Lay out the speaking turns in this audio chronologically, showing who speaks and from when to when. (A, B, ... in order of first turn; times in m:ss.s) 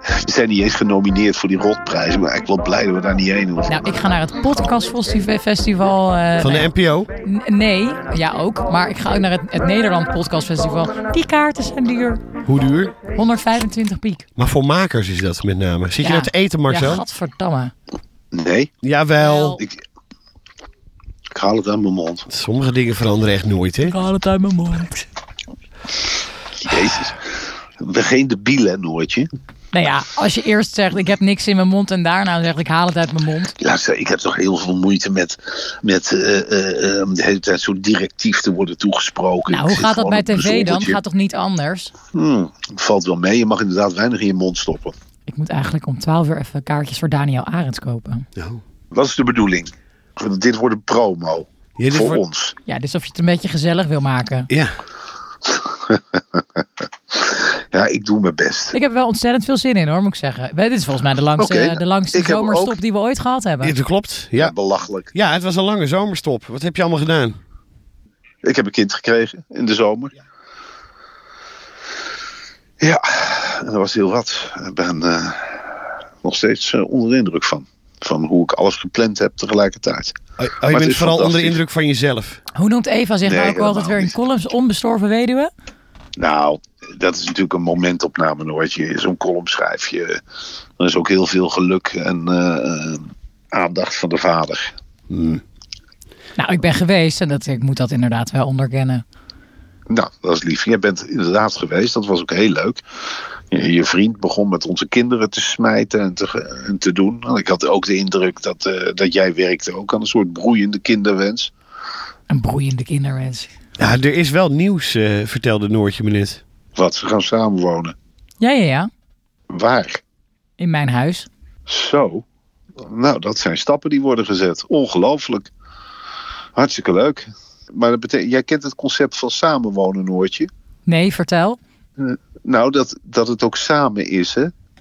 0:00.2-0:03.9 A
0:03.7-0:06.7 B
0:06.4-0:07.1 C
0:07.2-0:12.2 B
0:12.4-0:12.9 C
0:13.1-0:14.2 B
0:14.4-0:17.0 C
0:16.0-0:17.7 B
0:18.3-0:18.7 A
0:18.8-0:19.6 C
0:19.2-0:19.6 B
0:21.3-0:22.3 A
0:22.3-0:24.0 C
0:23.8-0:25.1 B
0:26.6-0:29.3 A
0:29.7-0:33.5 B
0:33.6-0:41.0 A
0:39.5-0:41.9 B
0:42.1-0:44.9 A
0:45.3-0:48.3 B
0:48.4-0:48.6 C
0:48.9-0:52.5 A
0:51.8-0:52.2 C
0:52.6-0:54.5 B
0:55.4-0:58.8 A
0:58.7-1:03.7 B
1:01.4-1:02.8 A
1:03.6-1:04.5 C
1:04.4-1:05.1 A
1:05.1-1:07.4 C
1:08.4-1:10.1 A
1:12.8-1:21.6 A
1:20.4-1:22.4 C
1:22.5-1:25.5 B
1:23.2-1:24.1 A
1:26.2-1:30.2 A
1:30.8-1:34.7 A
1:35.1-1:35.4 C
1:36.4-1:39.0 B
1:39.9-1:42.8 A
1:43.5-1:51.5 A
1:52.3-1:53.5 B
1:53.8-1:56.4 C
1:56.8-1:57.9 A
1:58.4-1:58.9 B
1:59.5-2:00.0 A
2:00.6-2:01.3 B
2:01.7-2:02.2 A
2:02.8-2:05.5 A
2:06.6-2:10.5 A
2:10.8-2:11.6 B
2:12.0-2:14.5 A